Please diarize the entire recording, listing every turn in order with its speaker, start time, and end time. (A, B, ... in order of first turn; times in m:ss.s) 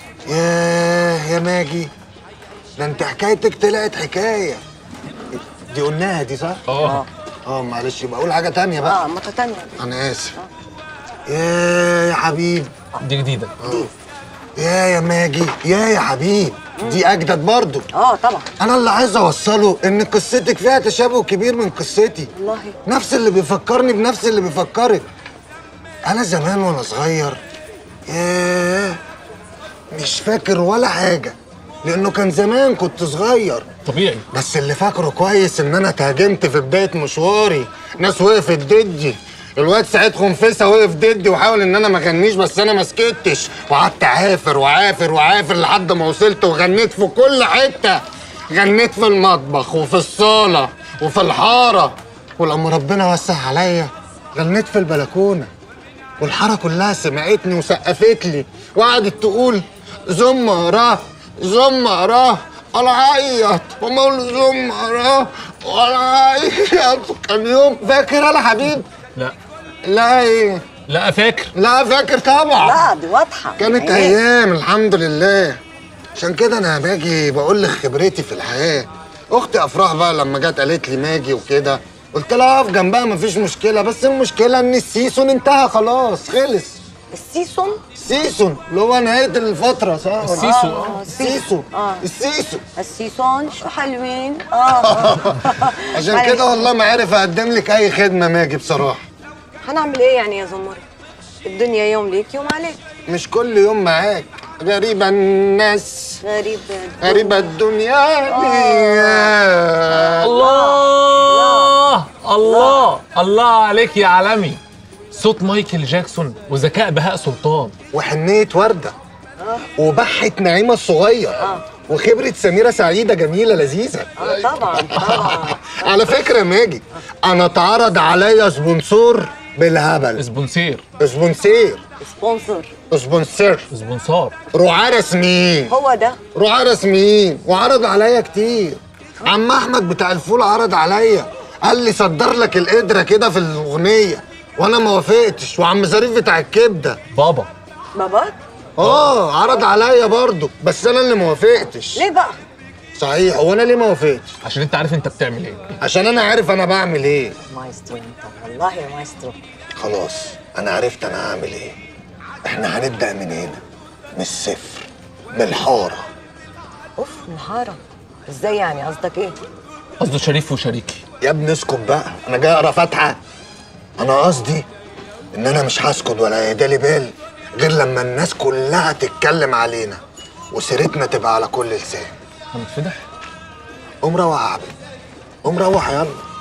0:00.3-0:01.9 A
0:02.8-0:04.6 A
0:05.7-0:06.6 A
0:06.7-0:07.0 B
0:06.8-0:07.1 C
0:07.5-0:09.0 A
0:08.8-0:09.8 C
0:09.8-0:10.3 A
0:11.3-0:12.7 A
0:13.0-0:13.6 B
0:13.6-0:13.9 A
0:14.6-0:17.8 A
0:16.7-0:17.0 C
0:17.9-0:18.5 C
0:18.6-0:22.3 A
0:22.3-0:22.7 C
0:22.8-0:25.0 A
0:26.1-0:27.4 A
0:28.1-0:29.0 A
0:29.9-0:33.6 A
0:33.8-0:34.2 B
0:34.3-0:48.0 A
0:48.5-0:55.5 A
0:56.2-1:08.9 A
1:09.9-1:10.8 A
1:10.9-1:11.5 B
1:11.5-1:12.9 A
1:12.6-1:14.2 C
1:13.6-1:15.6 A
1:16.2-1:26.8 A
1:27.1-1:27.8 C
1:27.9-1:32.6 A
1:30.2-1:31.0 B
1:30.3-1:32.0 C
1:32.8-1:36.7 C
1:34.8-1:35.4 A
1:35.9-1:39.0 A
1:39.6-1:40.8 C
1:41.4-1:42.8 C
1:43.1-1:46.2 A
1:46.2-1:47.4 C
1:47.0-1:50.4 A
1:48.3-1:49.3 C
1:49.9-1:51.7 C
1:50.2-1:57.8 B
1:52.4-1:52.8 C
1:57.9-1:58.9 A
1:59.8-2:10.2 A
2:01.4-2:01.7 C
2:04.2-2:06.0 C
2:10.2-2:10.8 B
2:11.0-2:11.8 A
2:12.0-2:12.7 C
2:12.9-2:13.7 A
2:13.7-2:14.4 B
2:14.5-2:15.7 A
2:15.7-2:16.2 C
2:16.3-2:27.0 A
2:27.1-2:27.5 B
2:27.9-2:28.4 C
2:28.8-2:32.1 A
2:28.8-2:29.1 B
2:31.9-2:32.4 C
2:32.9-2:34.3 A
2:34.4-2:35.8 B
2:35.8-2:37.4 A
2:37.4-2:39.4 C
2:39.8-2:41.8 A
2:42.5-2:43.6 A
2:44.2-2:46.1 A
2:47.0-2:49.4 C
2:50.0-2:51.0 B
2:51.2-2:53.2 A
2:54.0-2:54.7 A
2:55.3-3:00.0 A
3:00.5-3:02.1 A
3:02.5-3:03.0 B
3:04.0-3:04.7 A
3:05.4-3:06.2 A